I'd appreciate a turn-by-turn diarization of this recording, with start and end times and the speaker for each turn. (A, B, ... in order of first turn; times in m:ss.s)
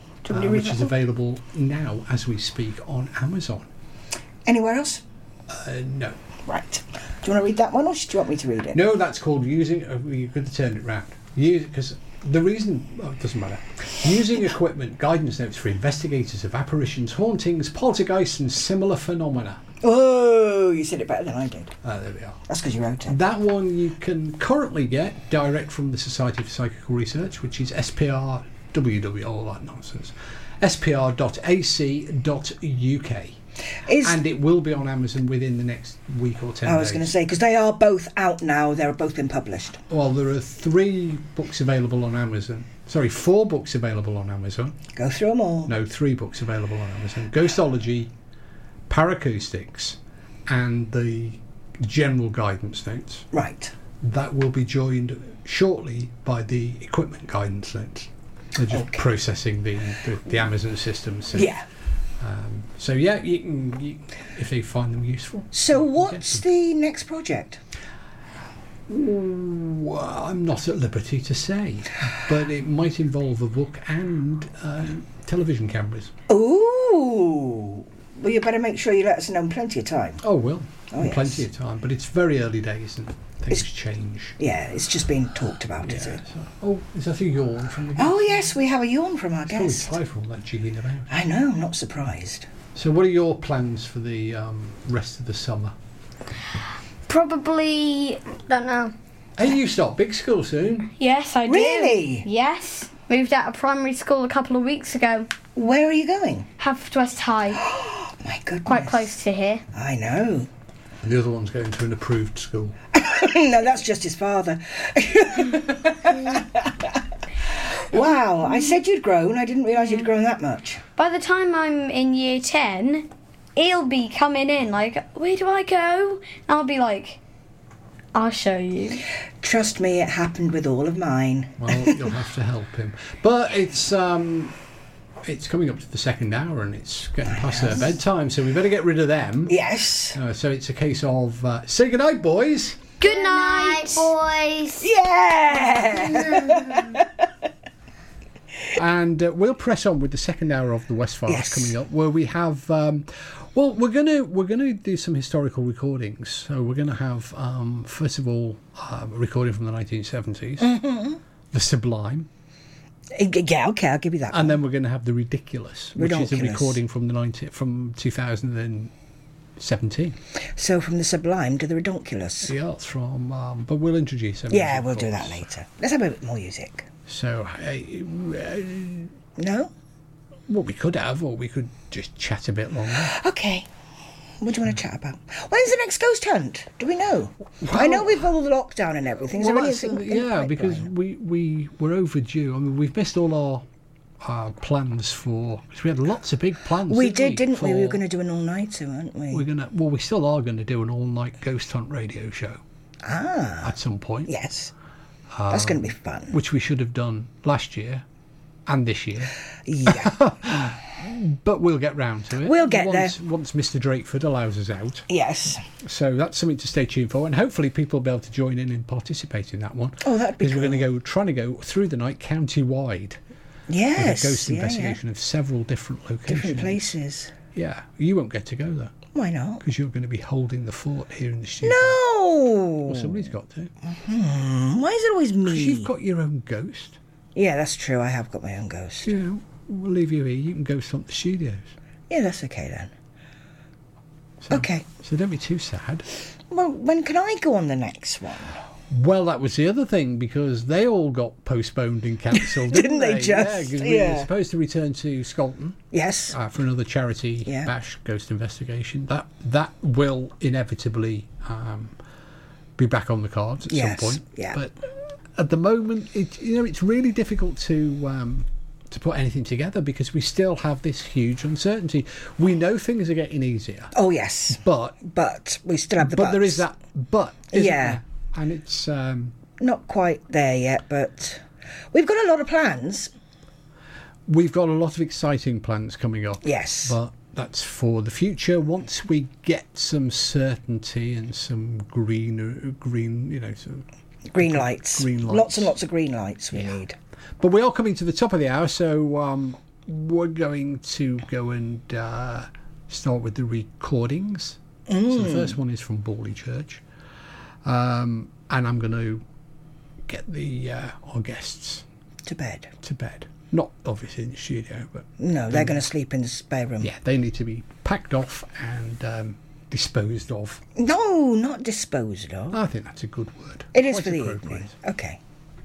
0:00.2-0:00.9 A
0:00.3-0:03.7 B
0:04.4-0:05.0 A
0:05.5-0:06.2 B
0:06.4-0:08.8 A
0:08.7-0:19.6 B
0:19.8-0:21.7 A
0:21.8-0:22.4 B
0:22.5-0:23.2 A
0:23.0-0:33.4 B
0:33.8-0:34.2 A
0:34.0-0:37.1 B
0:36.6-0:39.8 A
0:39.9-0:44.8 B
0:44.9-0:45.7 A
0:45.6-0:48.1 B
0:48.9-0:53.3 B
0:53.3-0:53.7 A
0:54.0-1:01.6 B
0:58.7-0:59.0 A
1:01.3-1:01.6 A
1:02.2-1:06.4 B
1:05.5-1:07.6 A
1:08.9-1:16.1 B
1:16.3-1:20.2 A
1:20.2-1:24.3 B
1:20.9-1:21.4 A
1:24.4-1:26.2 A
1:25.8-1:28.6 B
1:28.0-1:30.0 A
1:29.5-1:31.1 B
1:31.1-1:32.5 A
1:32.7-1:35.7 B
1:37.1-1:38.9 C
1:38.5-1:38.8 D
1:39.4-1:40.9 B
1:41.0-1:45.3 C
1:41.5-1:42.2 A
1:45.5-1:46.5 A
1:46.6-1:47.6 C
1:47.6-1:49.1 A
1:48.6-1:49.6 C
1:49.7-1:50.5 A
1:51.0-1:52.8 B
1:52.9-1:57.0 A
1:57.8-2:00.8 A
2:01.0-2:07.2 C
2:08.1-2:09.0 C
2:09.4-2:12.0 A
2:11.6-2:14.6 B
2:15.2-2:19.6 B
2:17.3-2:17.9 A
2:19.5-2:20.2 A
2:20.1-2:22.8 B
2:23.0-2:24.9 D
2:23.0-2:24.1 C
2:24.8-2:27.0 A
2:25.8-2:26.8 C
2:28.8-2:40.8 B
2:31.3-2:31.8 A
2:40.6-2:41.2 A
2:41.5-2:42.3 B
2:43.1-2:44.6 A
2:44.3-2:48.9 B
2:46.0-2:46.8 A
2:49.6-2:50.2 B
2:50.6-2:52.5 A
2:52.4-2:55.5 B
2:54.5-2:56.8 A
2:57.1-2:59.1 B
2:59.4-2:59.7 A
3:00.5-3:03.1 B
3:03.1-3:03.7 A
3:04.4-3:10.9 A
3:07.6-3:08.3 B
3:09.3-3:13.6 B
3:14.2-3:18.0 B
3:16.9-3:19.4 A
3:19.3-3:22.6 B
3:23.0-3:23.8 A
3:23.6-3:24.3 B
3:24.3-3:24.7 A
3:25.3-3:28.0 B
3:25.5-3:26.4 A
3:28.7-3:35.1 B
3:29.6-3:30.2 A
3:32.4-3:33.2 A
3:35.1-3:35.6 A
3:35.8-3:43.2 B
3:40.0-3:40.8 A
3:43.7-3:45.0 A
3:44.0-3:46.8 B
3:46.3-3:47.3 A
3:47.5-3:49.0 B
3:49.1-3:49.6 A
3:49.6-3:52.0 B
3:51.6-3:53.2 A
3:52.8-3:53.7 B
3:53.8-3:55.9 A
3:55.4-3:57.0 B
3:57.3-3:59.1 A
3:59.0-4:01.7 B
4:02.1-4:02.9 A
4:04.4-4:06.0 B
4:04.5-4:04.8 A
4:06.5-4:08.6 A
4:08.9-4:22.0 B
4:12.3-4:14.3 A
4:15.9-4:16.4 A
4:17.4-4:17.7 A
4:22.8-4:24.7 B
4:23.7-4:24.6 A
4:25.3-4:33.9 B
4:33.9-4:36.6 A
4:34.5-4:35.0 B
4:36.0-4:39.4 B
4:37.5-4:38.0 A
4:39.6-4:43.1 A
4:44.3-4:53.8 B
4:46.4-4:47.0 A
4:54.3-4:57.0 A
4:54.4-4:55.7 B
4:57.4-5:06.8 B
5:04.9-5:05.6 A
5:07.6-5:09.2 B
5:10.0-5:11.8 B
5:12.2-5:12.7 A
5:12.8-5:15.9 B
5:15.2-5:16.9 A
5:16.8-5:20.6 B
5:20.8-5:22.6 A
5:22.5-5:24.7 B
5:23.7-5:25.2 A